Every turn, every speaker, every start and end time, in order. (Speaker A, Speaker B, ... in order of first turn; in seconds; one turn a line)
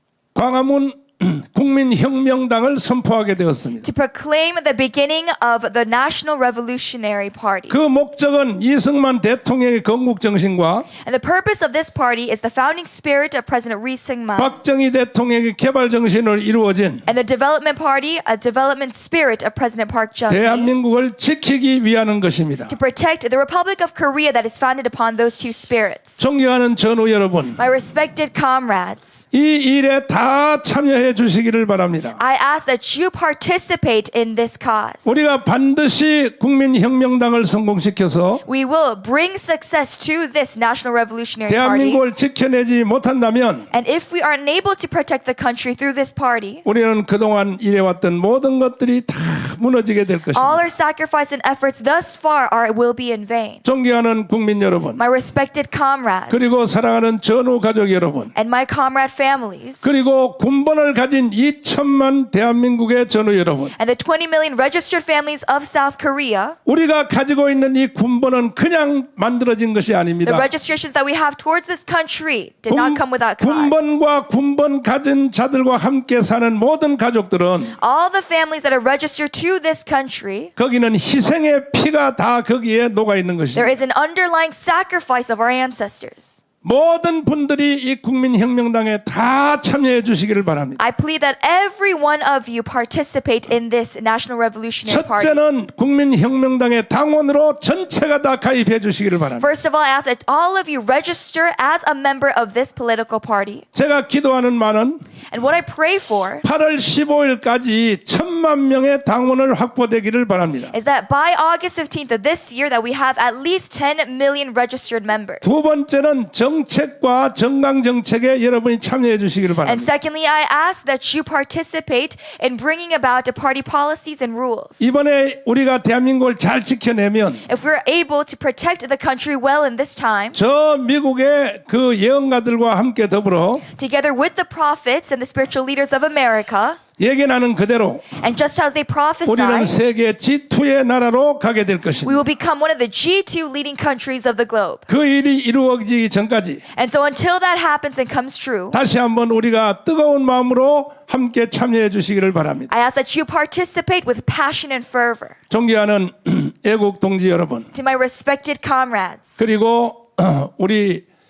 Speaker A: 0.3-3.9
Speaker B: 3.8-7.8
Speaker A: 7.7-10.9
Speaker B: 11.0-14.5
Speaker A: 14.4-17.0
Speaker B: 17.1-20.7
Speaker A: 20.3-22.7
Speaker B: 22.7-26.2
Speaker A: 26.2-27.6
Speaker B: 27.6-29.2
Speaker A: 29.3-32.2
Speaker B: 32.2-35.1
Speaker A: 35.0-38.4
Speaker B: 38.4-42.0
Speaker A: 41.5-43.7
Speaker B: 43.7-46.6
Speaker A: 46.6-50.6
Speaker B: 50.3-53.6
Speaker A: 53.6-55.0
Speaker B: 55.0-56.5
Speaker A: 56.3-58.3
Speaker B: 58.3-59.9
Speaker A: 59.8-63.7
Speaker B: 63.8-66.6
Speaker A: 66.7-70.5
Speaker B: 70.2-73.8
Speaker A: 72.7-77.7
Speaker B: 77.8-80.5
Speaker A: 80.6-83.8
Speaker B: 83.5-86.4
Speaker A: 86.6-90.8
Speaker B: 90.8-95.4
Speaker A: 94.9-99.5
Speaker B: 99.4-103.6
Speaker A: 103.7-105.0
Speaker B: 105.3-106.4
Speaker A: 106.4-110.7
Speaker B: 110.7-115.5
Speaker A: 115.4-119.9
Speaker B: 119.6-124.8
Speaker A: 124.8-127.4
Speaker B: 127.5-130.4
Speaker A: 130.3-133.6
Speaker B: 133.8-136.8
Speaker A: 137.0-138.2
Speaker B: 138.2-139.8
Speaker A: 139.3-142.2
Speaker B: 142.0-144.9
Speaker A: 144.9-146.6
Speaker B: 146.7-148.8
Speaker A: 148.7-152.7
Speaker B: 152.7-155.3
Speaker A: 155.5-157.7
Speaker B: 157.7-159.4
Speaker A: 159.4-161.0